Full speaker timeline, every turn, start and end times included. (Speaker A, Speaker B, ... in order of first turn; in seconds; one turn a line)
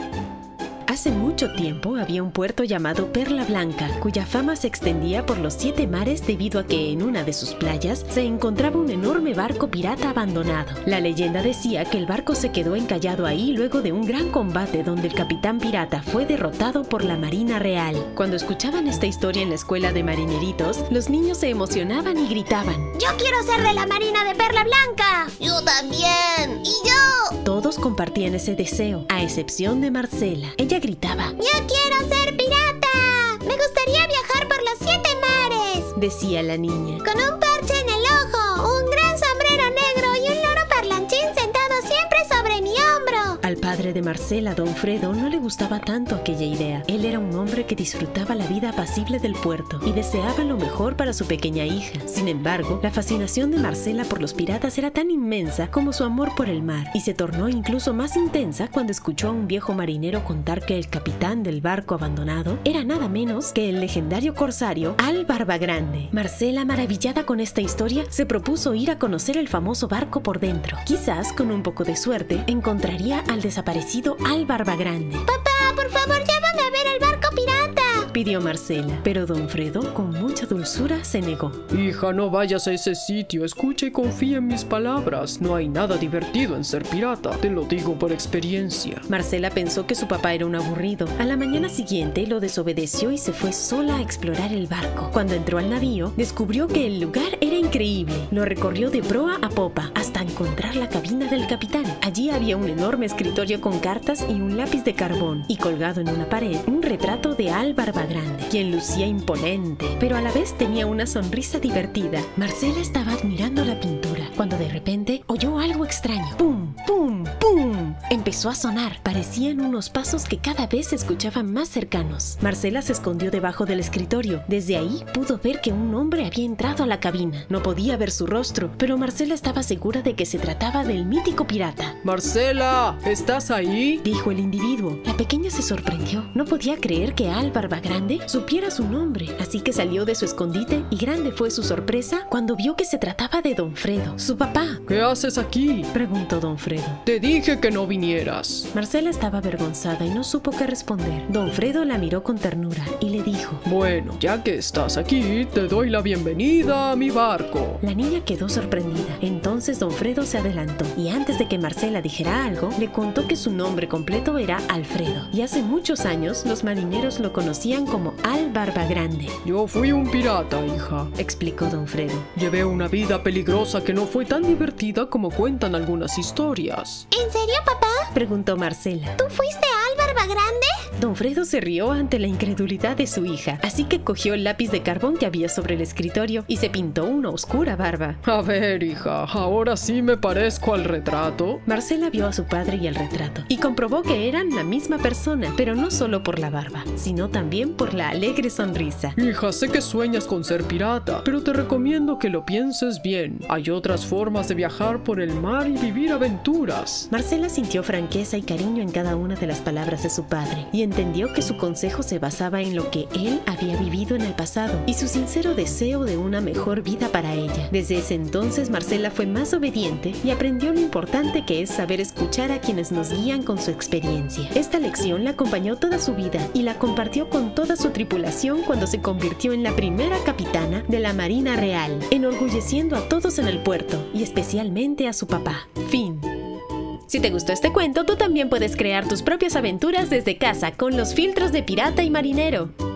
Speaker A: 0.9-22.9
Speaker B: 22.9-27.4
Speaker A: 27.4-31.4
Speaker B: 31.4-35.9
Speaker A: 36.0-37.0
Speaker B: 37.0-43.4
Speaker A: 43.4-75.3
Speaker B: 75.3-78.1
Speaker A: 78.1-81.6
Speaker C: 81.7-89.0
Speaker A: 89.1-132.0
Speaker C: 132.0-134.0
Speaker A: 134.0-144.8
Speaker C: 144.9-145.9
Speaker A: 145.9-147.0
Speaker C: 147.1-148.7
Speaker A: 148.7-153.6
Speaker C: 153.6-157.8
Speaker A: 157.8-169.4
Speaker C: 169.4-171.1
Speaker A: 171.2-172.3
Speaker C: 172.3-177.1
Speaker B: 177.1-178.1
Speaker A: 178.1-179.2
Speaker B: 179.2-180.8
Speaker A: 181.0-188.2
Speaker C: 188.2-191.6
Speaker A: 191.7-199.2
Speaker C: 199.2-207.1
Speaker A: 207.1-236.3
Speaker A: 237.1-242.7